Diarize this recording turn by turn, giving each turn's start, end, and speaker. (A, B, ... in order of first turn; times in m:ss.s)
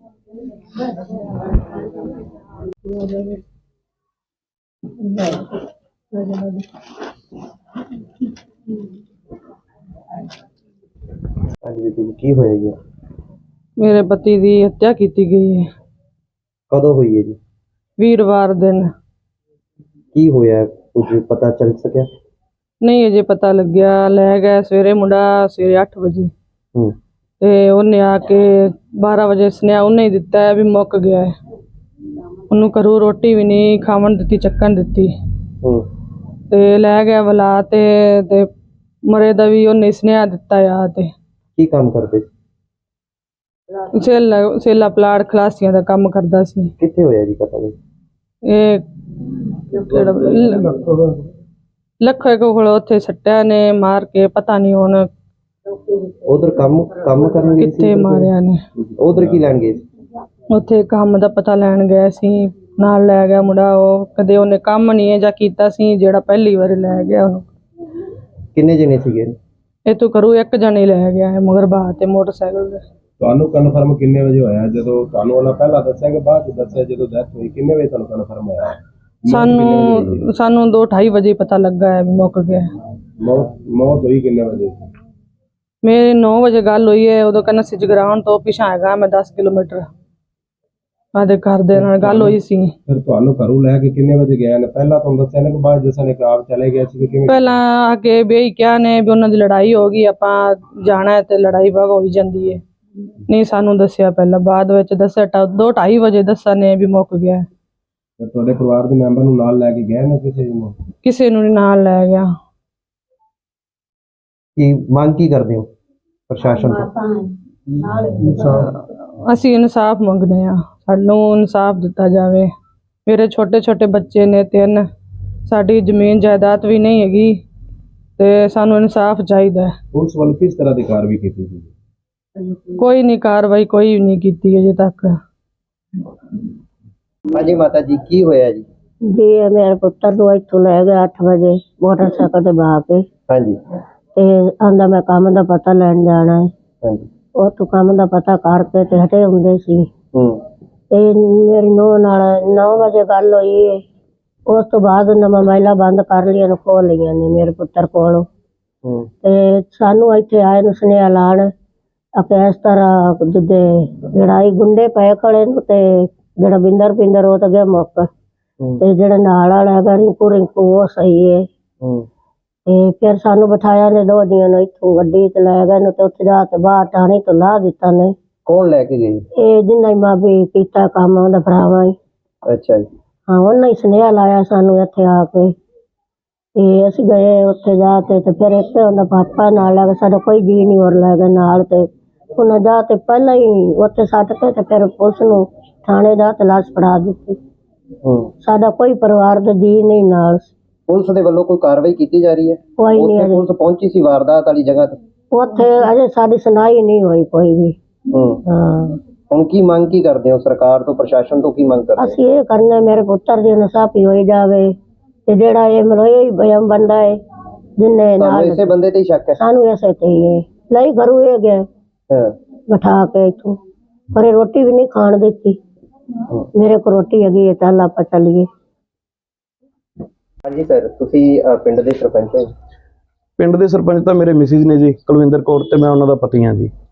0:02.8-0:03.4 A
0:05.0-0:05.5 A
0:06.1-0:06.6 A
0:11.6-0:12.8 B
0:13.8-0:15.7 A
0:16.7-0:17.4 B
0:18.0-0:18.9 A
0:20.1-0:22.1 B
0:22.8-0:26.3 A
0:27.4-0:31.3 A
0:32.5-0:35.1 A
0:36.5-0:38.5 A
0:39.1-0:41.1 A
0:41.6-0:42.3 B
0:44.0-0:46.7 A
0:46.8-0:47.7 B
0:48.4-0:48.8 A
0:49.7-0:50.7 A
0:50.0-0:51.2 C
0:52.0-0:55.1 A
0:56.2-0:58.3 B
0:57.6-0:58.6 A
0:58.8-0:59.5 C
0:59.0-0:59.8 B
1:00.5-1:07.5 A
1:08.6-1:09.4 B
1:09.9-1:12.8 A
1:13.2-1:20.3 C
1:19.3-1:22.7 A
1:23.2-1:24.8 C
1:25.8-1:29.9 A
1:31.1-1:32.7 A
1:31.8-1:37.6 C
1:37.3-1:42.6 A
1:43.3-1:47.4 A
1:48.2-1:50.8 C
1:51.0-1:52.3 A
1:54.6-1:55.7 B
1:56.3-1:56.9 B
1:58.1-1:58.7 C
1:58.6-2:02.5 A
2:03.0-2:04.9 A
2:05.5-2:07.4 A
2:08.2-2:09.7 A
2:09.9-2:11.7 C
2:12.8-2:15.1 A
2:17.3-2:18.7 B
2:19.1-2:23.0 D
2:23.3-2:23.6 B
2:24.1-2:26.5 D
2:26.8-2:27.1 B
2:27.4-2:29.9 D
2:30.1-2:30.4 B
2:30.9-2:33.8 D
2:34.5-2:38.3 D
2:38.8-2:39.1 B
2:39.2-2:41.5 D
2:42.2-2:48.1 D
2:48.8-2:51.5 D
2:51.8-2:52.1 B
2:52.7-2:58.1 D
2:58.4-2:59.2 B
2:59.4-3:01.9 D
3:02.4-3:02.9 B
3:03.3-3:05.5 D
3:06.6-3:17.4 D
3:18.0-3:18.3 B
3:18.4-3:20.5 D
3:20.9-3:25.0 B
3:22.8-3:23.4 D
3:25.3-3:27.8 D
3:28.1-3:28.4 B
3:28.5-3:29.0 D
3:29.3-3:32.2 B
3:32.0-3:34.7 D
3:35.3-3:37.2 D
3:37.8-3:38.7 D
3:38.2-3:39.4 B
3:39.4-3:41.7 D
3:42.1-3:42.3 B
3:42.7-3:43.6 D
3:44.1-3:45.6 D
3:46.5-3:48.5 D
3:50.4-3:52.5 B
3:53.4-3:56.7 E